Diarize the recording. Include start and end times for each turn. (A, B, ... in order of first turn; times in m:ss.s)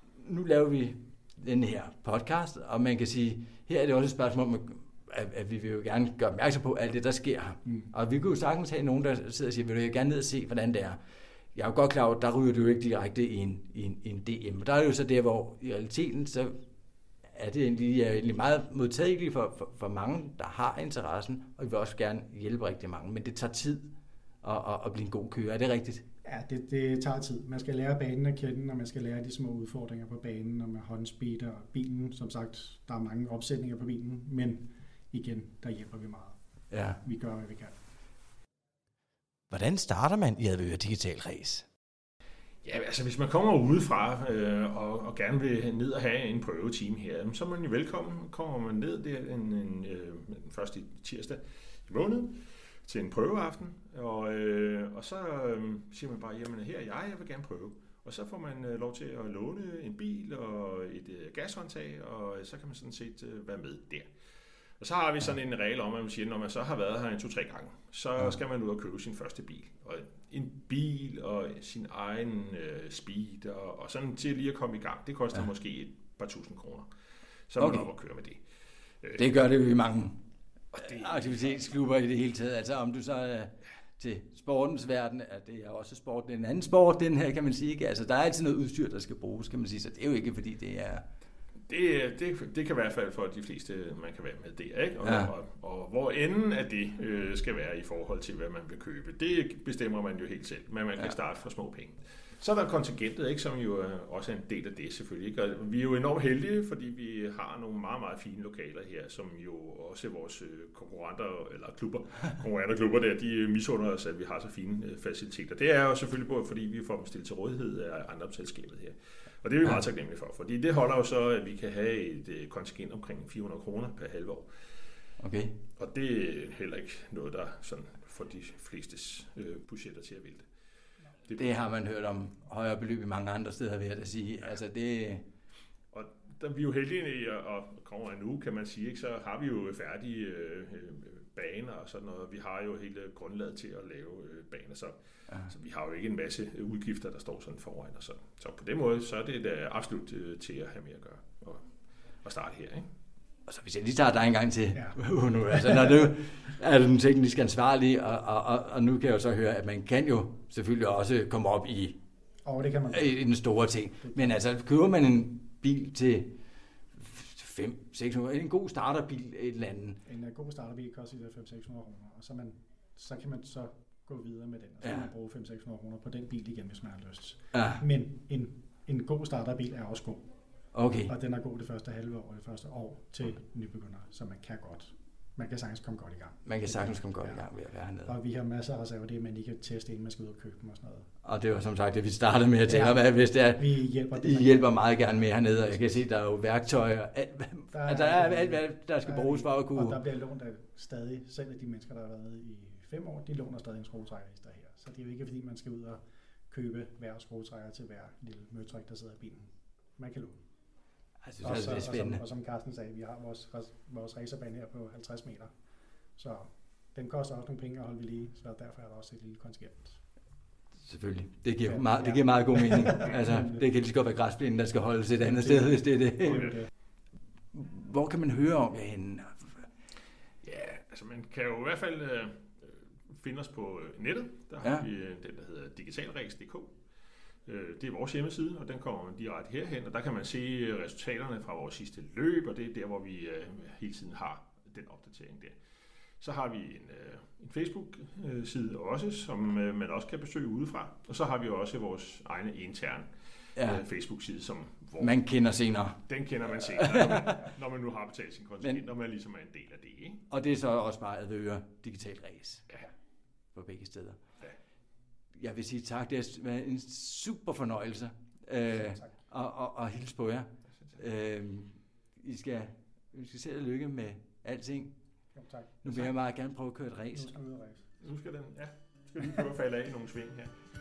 0:00.2-0:11.0 A
0:07.6-0:07.9 B
0:11.5-0:16.6 A
0:17.4-0:23.8 A
0:24.4-0:26.0 A
0:26.2-0:36.4 B
0:36.7-0:37.0 A
0:36.9-0:37.7 B
0:39.5-0:41.6 C
0:42.6-1:04.1 D
1:04.8-1:16.9 D
1:17.5-1:18.4 D
1:17.6-1:17.9 A
1:19.2-1:20.2 A
1:20.7-1:21.7 D
1:20.8-1:31.0 A
1:31.7-2:04.5 D
1:35.0-1:35.3 A
2:05.2-2:05.5 A
2:05.8-2:10.5 D
2:11.3-2:11.6 D
2:11.4-2:15.2 A
2:15.9-2:31.6 D
2:32.2-2:32.9 D
2:33.5-2:42.0 A
2:35.5-2:35.9 B
2:42.4-2:43.2 B
2:42.9-2:46.2 A
2:44.0-2:44.4 B
2:47.0-2:50.0 A
2:50.0-3:00.3 B
2:54.8-2:55.1 A
2:57.5-2:57.8 A
3:00.7-3:01.1 A
3:01.1-3:07.5 B
3:06.4-3:08.1 A
3:08.0-3:11.1 B
3:11.2-3:20.0 A
3:12.6-3:16.0 B
3:17.7-3:30.4 B
3:31.2-3:32.2 A
3:31.4-3:35.5 B
3:36.2-3:40.0 B
3:40.8-3:46.6 A
3:41.6-3:43.6 B
3:45.2-3:46.7 B
3:46.3-3:46.5 D
3:47.5-3:49.6 A
3:50.4-3:56.7 D
3:57.5-4:05.6 D
4:06.2-4:13.1 D
4:13.6-4:13.8 A
4:13.6-4:15.2 D
4:15.0-4:16.0 A
4:16.1-4:20.2 D
4:16.8-4:17.2 A
4:20.3-4:22.6 A
4:23.5-4:24.2 A
4:25.4-4:34.9 A
4:28.7-4:29.2 B
4:35.4-4:35.8 B
4:35.8-4:37.3 A
4:37.1-4:37.9 B
4:38.0-4:40.5 D